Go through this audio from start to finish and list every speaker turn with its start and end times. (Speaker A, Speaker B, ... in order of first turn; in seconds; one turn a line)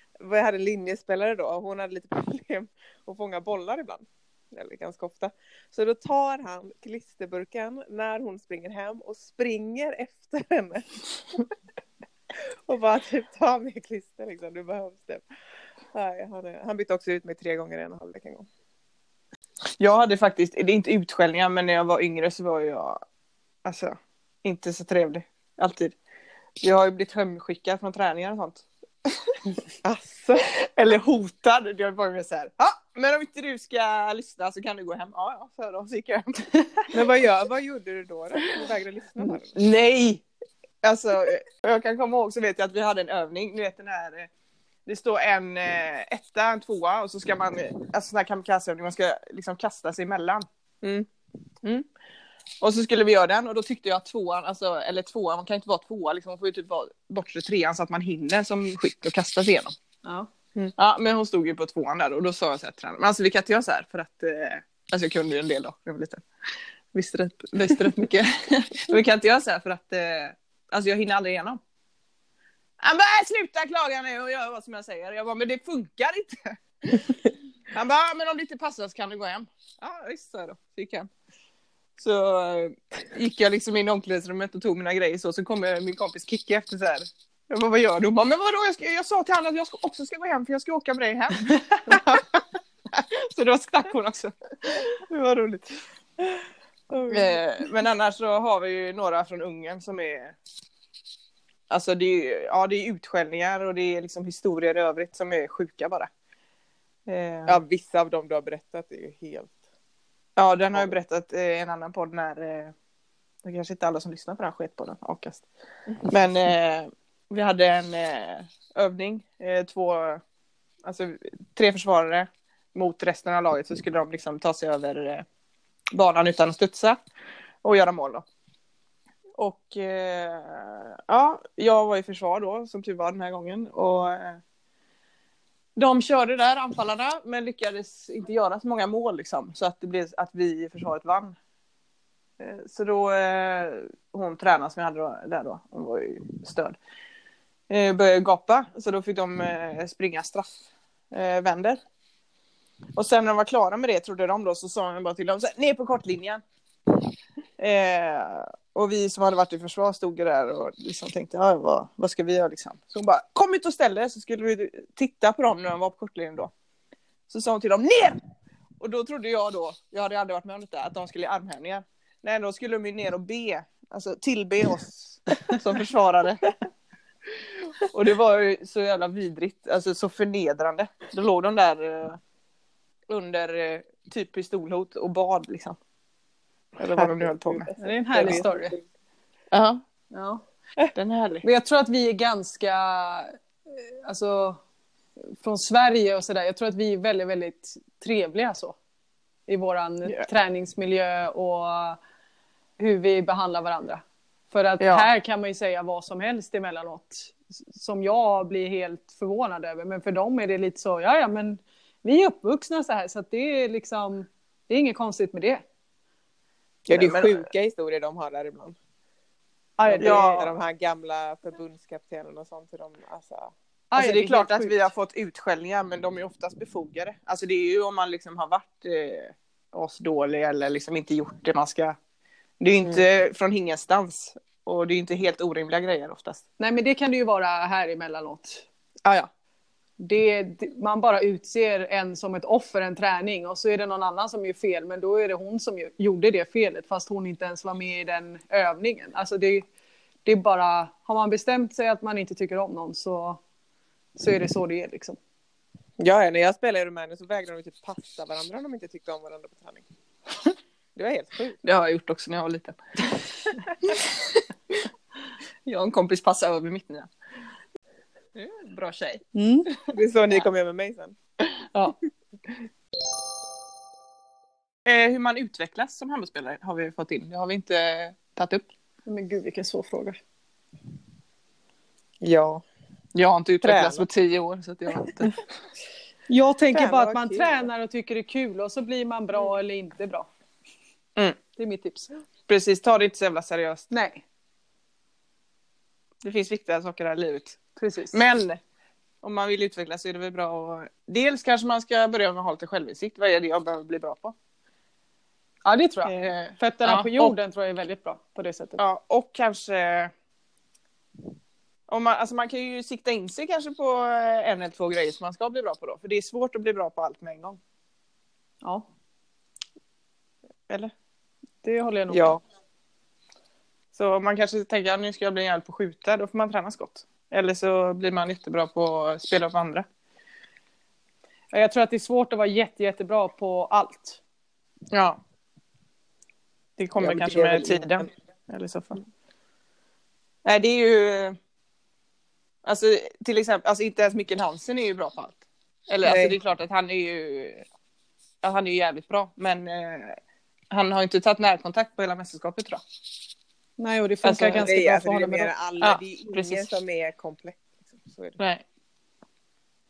Speaker A: 0.2-10.9
Speaker A: 12.7-15.2
Speaker A: 15.9-18.5
Speaker B: 19.8-23.0
Speaker B: 23.6-26.0
Speaker B: 26.6-29.4
Speaker A: 29.8-30.5
Speaker B: 30.4-36.9
Speaker A: 36.9-39.6
Speaker B: 39.5-40.2
Speaker B: 40.8-44.3
Speaker B: 44.9-50.5
Speaker A: 50.8-51.1
Speaker B: 52.6-59.8
Speaker B: 60.8-66.2
Speaker B: 66.9-71.6
Speaker B: 72.8-77.2
Speaker B: 77.7-81.1
Speaker B: 82.0-95.8
Speaker A: 96.9-97.4
Speaker B: 97.1-100.4
Speaker B: 101.7-106.1
Speaker B: 107.1-107.6
Speaker A: 107.5-109.6
Speaker B: 110.4-112.7
Speaker B: 113.5-115.5
Speaker B: 116.0-120.2
Speaker B: 120.8-125.3
Speaker B: 125.9-127.0
Speaker B: 127.6-128.2
Speaker B: 129.4-134.4
Speaker B: 135.8-141.4
Speaker B: 142.4-146.8
Speaker B: 147.7-151.8
Speaker B: 153.0-156.4
Speaker B: 157.6-166.5
Speaker B: 167.3-168.2
Speaker B: 168.8-176.5
Speaker B: 177.8-182.2
Speaker B: 183.1-185.8
Speaker B: 186.8-188.4
Speaker A: 186.8-188.8
Speaker C: 187.8-188.8
Speaker B: 189.5-189.8
Speaker C: 190.1-190.4
Speaker B: 190.9-191.4
Speaker C: 191.4-194.6
Speaker C: 195.4-198.8
Speaker C: 199.5-202.0
Speaker C: 202.8-215.7
Speaker B: 204.8-205.1
Speaker A: 216.9-218.8
Speaker B: 216.9-217.4
Speaker C: 219.8-220.3
Speaker A: 219.9-223.5
Speaker B: 220.0-220.5
Speaker C: 223.9-224.9
Speaker B: 223.9-232.0
Speaker B: 232.6-236.4
Speaker C: 236.6-238.7
Speaker B: 239.1-239.3
Speaker C: 240.0-249.7
Speaker C: 250.2-253.4
Speaker C: 254.2-255.2
Speaker A: 256.0-259.9
Speaker A: 260.9-261.6
Speaker B: 261.6-263.3
Speaker B: 263.8-264.9
Speaker B: 265.6-267.1
Speaker B: 268.4-269.8
Speaker C: 269.3-269.7
Speaker A: 269.9-271.1
Speaker B: 274.9-278.7
Speaker C: 279.1-280.2
Speaker A: 282.2-282.6
Speaker B: 283.1-285.4
Speaker A: 283.6-284.1
Speaker C: 286.3-290.3
Speaker A: 286.7-287.7
Speaker C: 291.6-292.1
Speaker B: 292.5-293.9
Speaker C: 293.9-294.2
Speaker B: 296.2-297.6
Speaker C: 297.8-298.2
Speaker B: 298.1-298.6
Speaker B: 299.2-304.3
Speaker C: 305.6-308.8
Speaker B: 306.1-307.3
Speaker B: 308.8-310.1
Speaker B: 311.9-317.6
Speaker C: 321.6-322.4
Speaker A: 322.1-322.4
Speaker B: 323.9-329.9
Speaker C: 331.5-334.2
Speaker B: 334.9-335.2
Speaker B: 336.8-339.0
Speaker A: 337.0-338.1
Speaker B: 340.4-341.4
Speaker B: 342.6-347.7
Speaker A: 346.0-346.4
Speaker B: 348.4-350.2
Speaker B: 350.7-352.8
Speaker C: 353.8-355.5
Speaker B: 354.2-354.7
Speaker A: 354.5-358.4
Speaker B: 355.8-356.7
Speaker B: 358.4-358.6